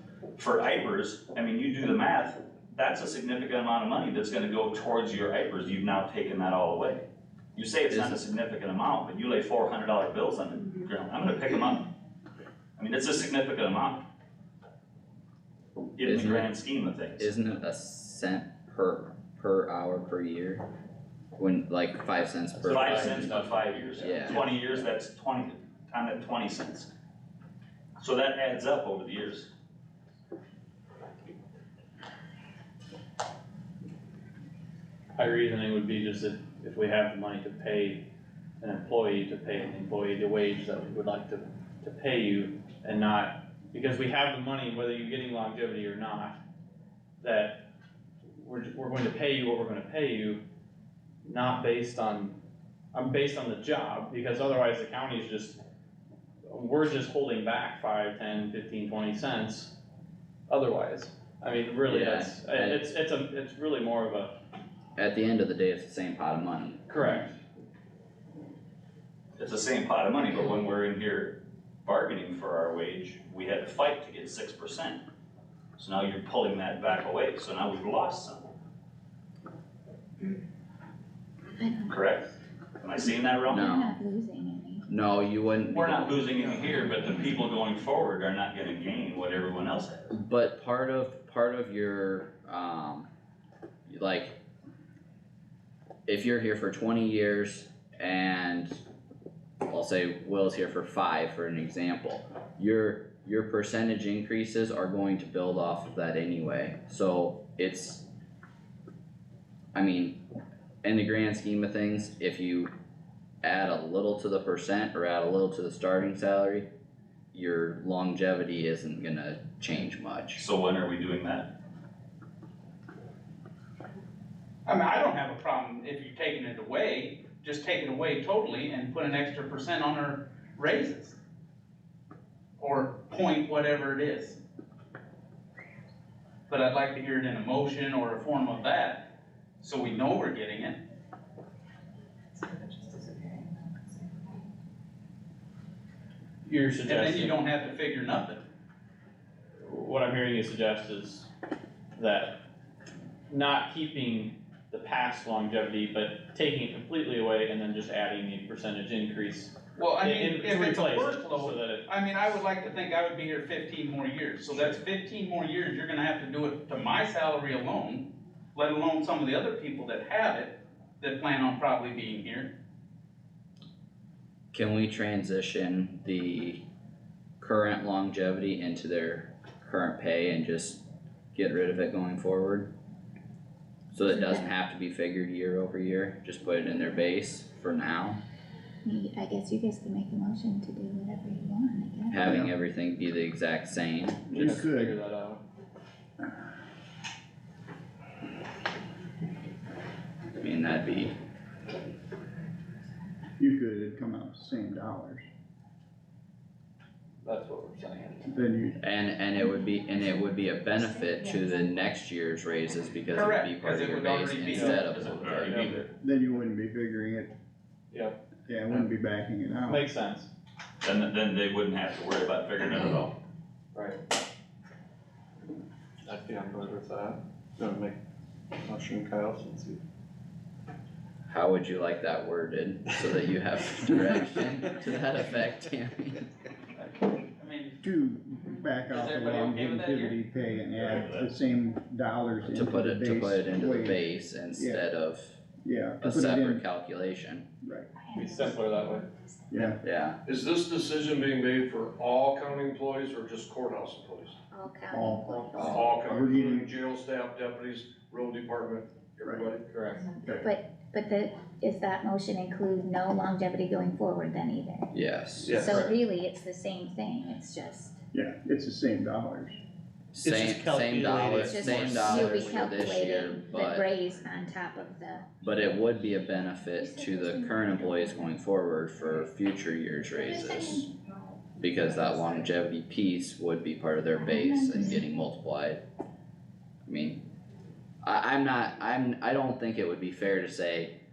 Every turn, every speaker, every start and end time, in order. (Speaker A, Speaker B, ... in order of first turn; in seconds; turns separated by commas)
Speaker A: 0.4-7.0, Speaker A: 7.5-11.9, Speaker B: 7.9-8.2, Speaker A: 12.8-14.0, Speaker A: 16.0-17.3, Speaker B: 16.0-16.5, Speaker B: 17.2-20.7, Speaker B: 21.4-23.1, Speaker C: 22.5-24.9, Speaker A: 22.7-26.9, Speaker B: 24.0-24.4, Speaker A: 28.0-29.5, Speaker C: 35.1-38.0, Speaker C: 38.6-46.4, Speaker C: 47.2-47.6, Speaker C: 48.3-50.4, Speaker C: 51.2-52.4, Speaker C: 52.9-55.6, Speaker C: 56.5-59.7, Speaker C: 60.5-64.3, Speaker B: 61.9-62.8, Speaker B: 65.0-66.8, Speaker C: 66.9-67.4, Speaker A: 69.4-75.0, Speaker A: 75.8-78.5, Speaker D: 81.6-82.0, Speaker A: 81.9-82.2, Speaker A: 82.8-83.7, Speaker B: 83.5-83.9, Speaker D: 83.5-84.8, Speaker B: 84.9-86.8, Speaker A: 85.7-90.1, Speaker B: 90.1-93.1, Speaker B: 93.9-94.4, Speaker B: 96.1-98.8, Speaker B: 99.7-108.0, Speaker B: 109.7-110.2, Speaker B: 110.8-112.7, Speaker B: 113.4-116.7, Speaker B: 117.3-120.4, Speaker A: 120.3-121.5, Speaker E: 124.7-131.2, Speaker E: 132.6-134.4, Speaker E: 136.5-139.1, Speaker E: 139.6-140.8, Speaker D: 142.4-144.1, Speaker C: 146.4-147.4, Speaker E: 146.8-148.4, Speaker C: 149.6-151.3, Speaker C: 151.9-152.4, Speaker C: 153.3-161.8, Speaker E: 159.8-172.5, Speaker B: 174.5-176.6, Speaker B: 177.4-180.8, Speaker B: 181.3-182.7, Speaker B: 183.9-188.2, Speaker D: 184.0-184.5, Speaker D: 188.8-192.3, Speaker B: 192.1-194.7, Speaker F: 192.2-192.5, Speaker F: 194.3-195.0, Speaker C: 194.3-195.4, Speaker B: 200.4-201.1, Speaker F: 203.4-205.2, Speaker C: 207.2-208.3, Speaker F: 208.2-208.8, Speaker B: 208.8-215.7, Speaker D: 209.3-211.9, Speaker E: 213.1-215.1, Speaker C: 214.5-214.8, Speaker A: 214.8-215.9, Speaker F: 215.9-217.3, Speaker F: 218.5-219.8, Speaker C: 219.7-220.3, Speaker A: 220.8-223.1, Speaker G: 226.1-227.7, Speaker G: 228.6-229.8, Speaker B: 231.3-236.3, Speaker E: 237.4-237.8, Speaker F: 237.8-244.9, Speaker E: 238.9-240.2, Speaker A: 240.8-241.3, Speaker B: 242.5-245.4, Speaker F: 245.6-246.6, Speaker B: 246.0-247.4, Speaker F: 247.6-247.9, Speaker D: 248.0-249.6, Speaker C: 248.1-249.1, Speaker F: 249.5-249.8, Speaker B: 249.8-250.2, Speaker H: 250.3-254.3, Speaker D: 254.5-256.2, Speaker F: 254.9-256.7, Speaker H: 256.7-259.2, Speaker F: 259.2-259.6, Speaker C: 259.7-260.1, Speaker D: 259.9-264.9, Speaker F: 260.2-260.5, Speaker B: 264.9-265.8, Speaker C: 265.4-265.9, Speaker D: 265.5-268.0, Speaker F: 268.1-269.6, Speaker B: 270.1-274.0, Speaker C: 270.2-272.7, Speaker D: 271.4-275.3, Speaker B: 275.4-280.9, Speaker D: 276.8-278.4, Speaker D: 279.0-279.3, Speaker D: 280.1-282.6, Speaker B: 281.6-285.8, Speaker D: 284.1-285.1, Speaker B: 286.9-287.2, Speaker B: 288.0-290.9